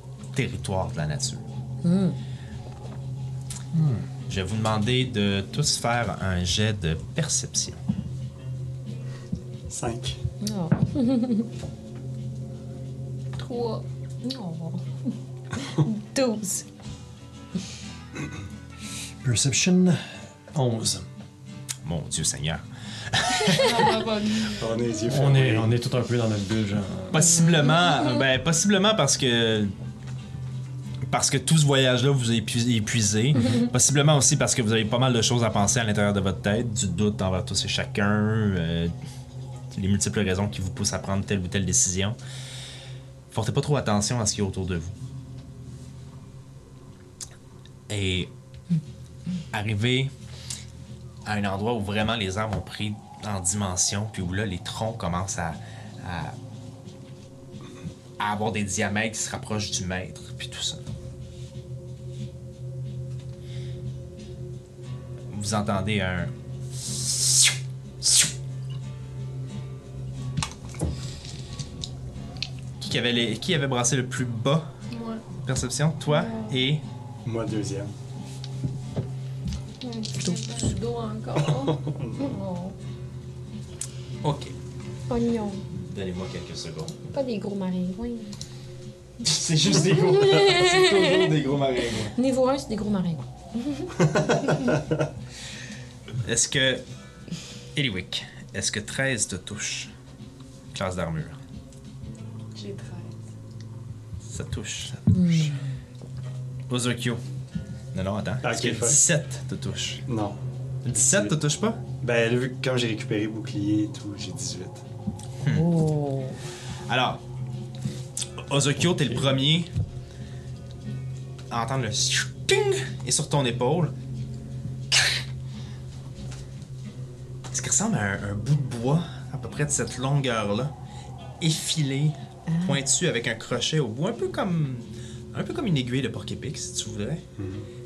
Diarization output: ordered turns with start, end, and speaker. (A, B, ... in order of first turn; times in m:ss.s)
0:00.3-0:01.4 A
0:01.8-0:02.2 B
0:03.7-0:04.0 C
0:04.3-0:07.8 A
0:09.7-0:10.2 D
0:10.4-0:11.5 B
0:13.4-0:14.8 B
0:15.6-0:16.6 B
0:19.2-0:21.0 C
0:21.8-0:23.9 A
0:23.4-0:24.8 E
0:24.6-0:25.7 D
0:25.0-0:27.2 C
0:27.1-0:29.7 A
0:31.1-0:38.9 A
0:39.7-0:42.2 A
0:43.3-0:44.9 A
0:47.9-0:48.3 A
0:49.5-0:50.1 A
0:51.2-0:56.3 A
0:58.2-1:00.8 A
1:05.3-1:06.3 A
1:06.8-1:07.4 A
1:12.8-1:14.7 A
1:14.9-1:15.2 E
1:15.4-1:16.8 A
1:16.1-1:16.6 E
1:17.2-1:17.9 D
1:19.8-1:21.8 E
1:21.6-1:22.3 D
1:22.2-1:22.7 B
1:24.2-1:24.5 A
1:25.1-1:25.6 B
1:25.7-1:27.0 A
1:27.1-1:28.3 B
1:29.2-1:32.1 A
1:29.8-1:31.3 B
1:32.1-1:33.9 B
1:34.2-1:34.9 D
1:36.2-1:36.8 A
1:37.7-1:39.9 A
1:40.7-1:41.4 A
1:42.5-1:43.2 E
1:44.2-1:45.1 A
1:45.1-1:45.6 B
1:46.7-1:47.2 A
1:47.9-1:50.0 A
1:48.4-1:49.0 D
1:50.1-1:50.4 D
1:50.8-1:51.8 A
1:50.9-1:51.3 D
1:52.0-1:54.8 D
1:55.5-1:56.4 B
1:56.9-1:57.2 A
1:58.5-1:59.7 A
2:01.5-2:03.9 A
2:07.5-2:10.7 A
2:11.4-2:17.2 A
2:17.4-2:17.6 D